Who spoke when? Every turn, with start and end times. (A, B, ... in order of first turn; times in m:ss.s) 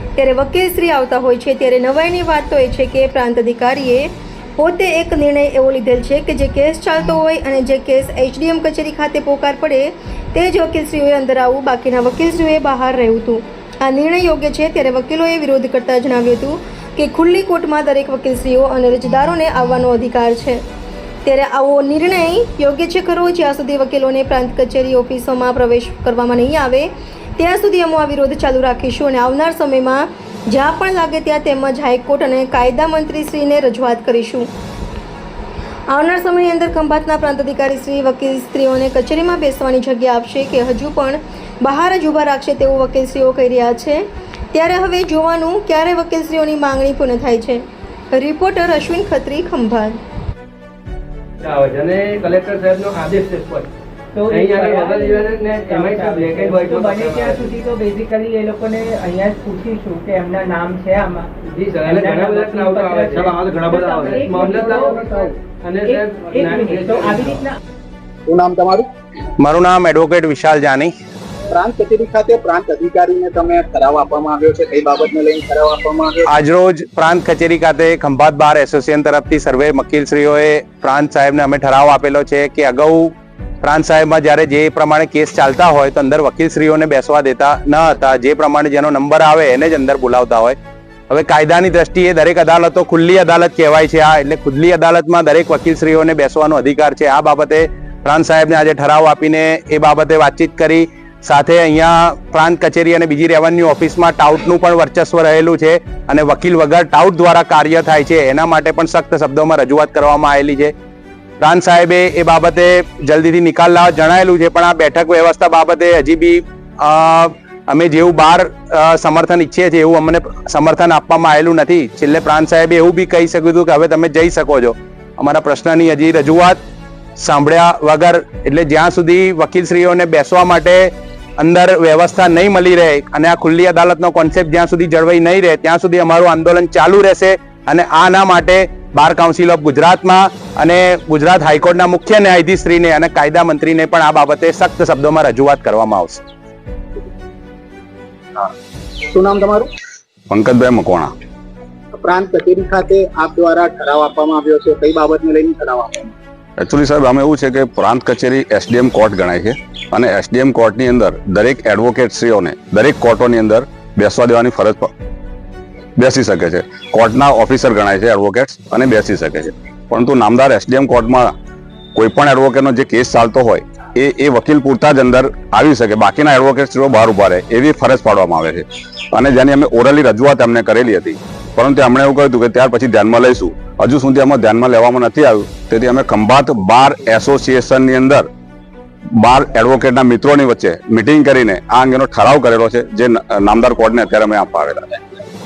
0:00.2-0:20.6 A
0:21.2-0:34.5 A
0:35.9-0:50.0 A
0:51.4-0:53.7 B
0:54.1-1:01.3 C
0:54.3-0:57.5 B
1:01.5-1:07.4 B
1:01.8-1:05.2 C
1:05.8-1:07.6 C
1:08.3-1:08.9 D
1:09.4-1:10.9 E
1:11.5-1:16.3 D
1:16.3-1:30.6 E
1:31.1-1:50.7 E
1:51.4-2:06.6 E
2:07.2-2:26.2 E
2:29.1-2:29.7 D
2:30.3-2:31.1 F
2:32.0-2:36.1 D
2:36.6-2:44.9 F
2:46.0-2:51.3 F
2:52.0-3:08.3 F
3:09.2-3:15.1 F